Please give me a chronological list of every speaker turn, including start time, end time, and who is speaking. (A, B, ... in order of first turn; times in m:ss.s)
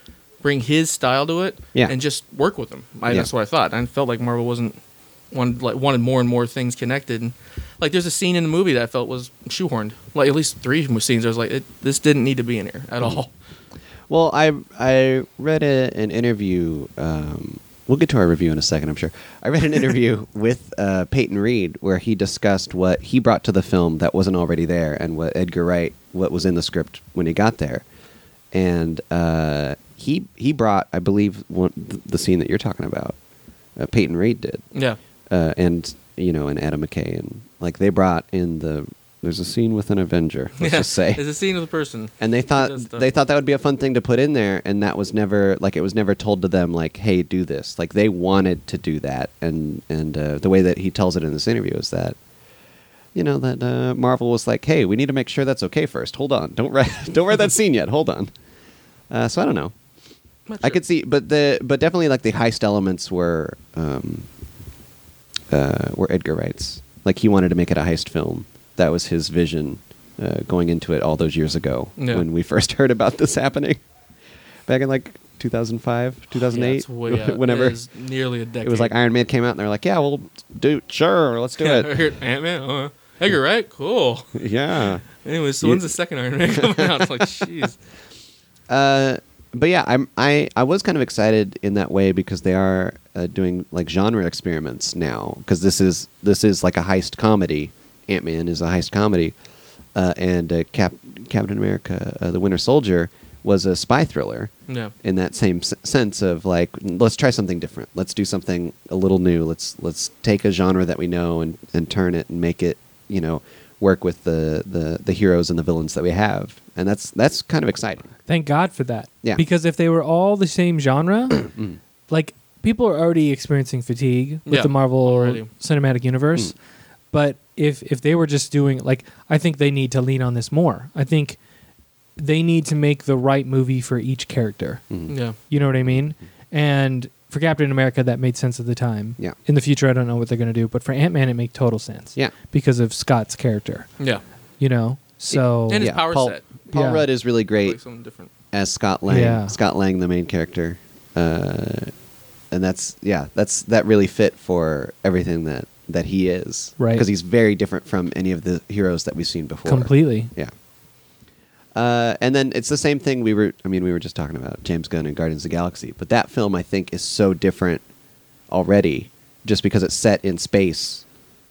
0:00.4-0:04.8 A
0:05.3-0:13.3 A
0:14.1-0:27.8 B
0:28.5-0:33.2 B
0:33.8-0:34.6 B
0:34.7-0:35.0 A
0:35.3-0:41.2 B
0:40.6-0:43.1 A
0:42.2-0:52.2 B
0:53.1-0:58.3 B
0:59.1-0:59.7 B
1:00.5-1:00.8 A
1:00.6-1:04.3 B
1:05.5-1:13.8 B
1:12.0-1:12.2 A
1:14.7-1:17.8 B
1:16.4-1:18.9 A
1:18.6-1:21.9 B
1:21.6-1:24.4 A
1:24.3-1:25.0 B
1:25.2-1:27.8 A
1:25.6-1:25.9 B
1:26.5-1:27.4 B
1:28.7-1:39.4 B
1:39.9-1:44.5 B
1:44.7-1:44.9 A
1:45.0-1:58.1 B
1:58.3-2:01.5 C
2:01.5-2:01.8 B
2:02.1-2:06.6 C
2:04.5-2:05.5 A
2:07.1-2:11.4 C
2:12.2-2:14.8 C
2:15.1-2:15.4 A
2:15.4-2:24.0 C
2:24.6-2:25.9 C
2:25.3-2:27.8 B
2:25.7-2:26.4 A
2:26.7-2:27.0 C
2:27.6-2:28.3 A
2:28.5-2:31.9 B
2:29.1-2:29.5 C
2:32.5-2:40.5 B
2:36.8-2:37.1 C
2:39.6-2:40.3 C
2:41.7-2:47.8 B
2:48.5-2:51.0 B